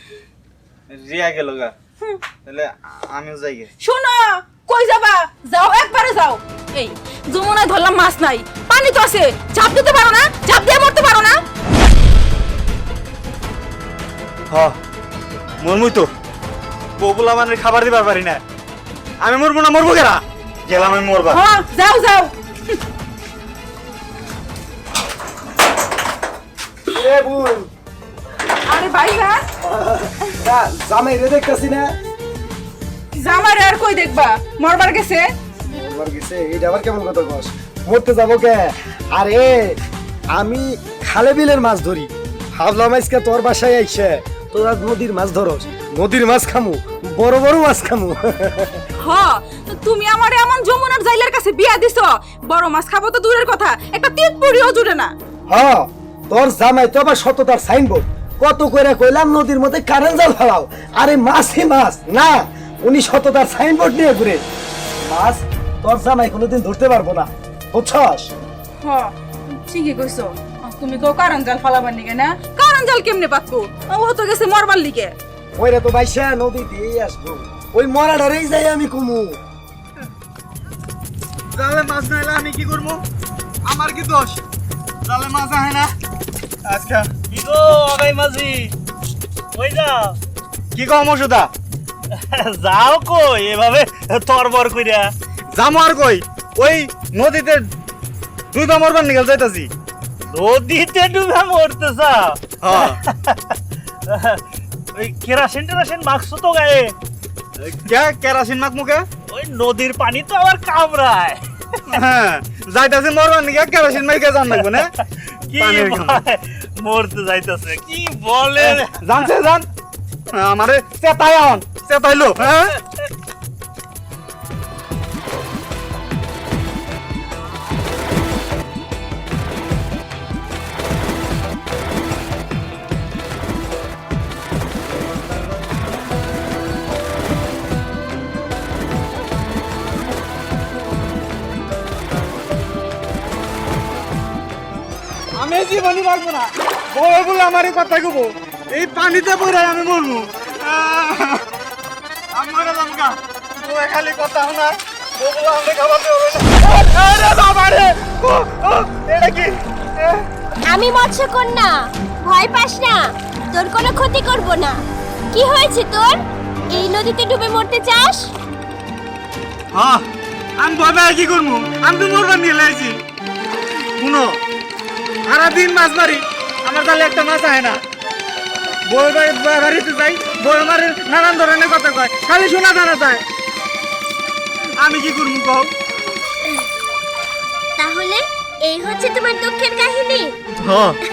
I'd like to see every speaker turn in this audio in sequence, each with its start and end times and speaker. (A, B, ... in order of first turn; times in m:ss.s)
0:00.9-0:01.7 A
0:02.4-0:03.7 A
0:03.8-0:11.4 B
0:15.6-0:16.1 A
0:17.0-0:18.4 A
0:19.2-0:21.4 A
0:21.3-0:22.8 B
0:26.9-0:27.7 C
0:28.6-0:29.4 B
0:29.6-0:31.9 C
0:33.1-0:35.3 B
0:35.7-0:39.8 C
0:40.3-0:48.8 C
0:49.0-0:55.1 B
0:55.5-1:04.4 C
1:05.0-1:08.3 C
1:08.8-1:15.1 B
1:15.6-1:19.4 C
1:21.5-1:23.0 A
1:23.6-1:24.4 A
1:25.0-1:25.9 A
1:26.6-1:27.2 A
1:27.3-1:28.7 D
1:29.5-1:30.2 D
1:30.7-1:31.5 A
1:32.1-1:35.1 D
1:35.5-1:37.6 A
1:38.5-1:39.7 A
1:40.3-1:43.5 D
1:42.6-1:43.0 A
1:44.1-1:44.4 D
1:44.9-1:46.9 D
1:47.6-1:49.0 A
1:49.3-1:52.0 D
1:51.9-1:54.9 A
1:55.5-1:59.0 D
1:55.5-1:56.2 A
1:58.6-1:59.7 A
2:00.3-2:02.8 A
2:25.3-2:31.4 A
2:32.3-2:40.2 A
2:40.7-2:44.8 E
2:45.3-2:48.3 E
2:49.7-2:50.0 A
2:50.6-2:53.0 A
2:54.0-2:54.3 A
2:55.3-2:57.8 A
2:58.9-3:03.2 A
3:04.8-3:05.7 A
3:07.8-3:10.3 E
3:10.6-3:11.0 A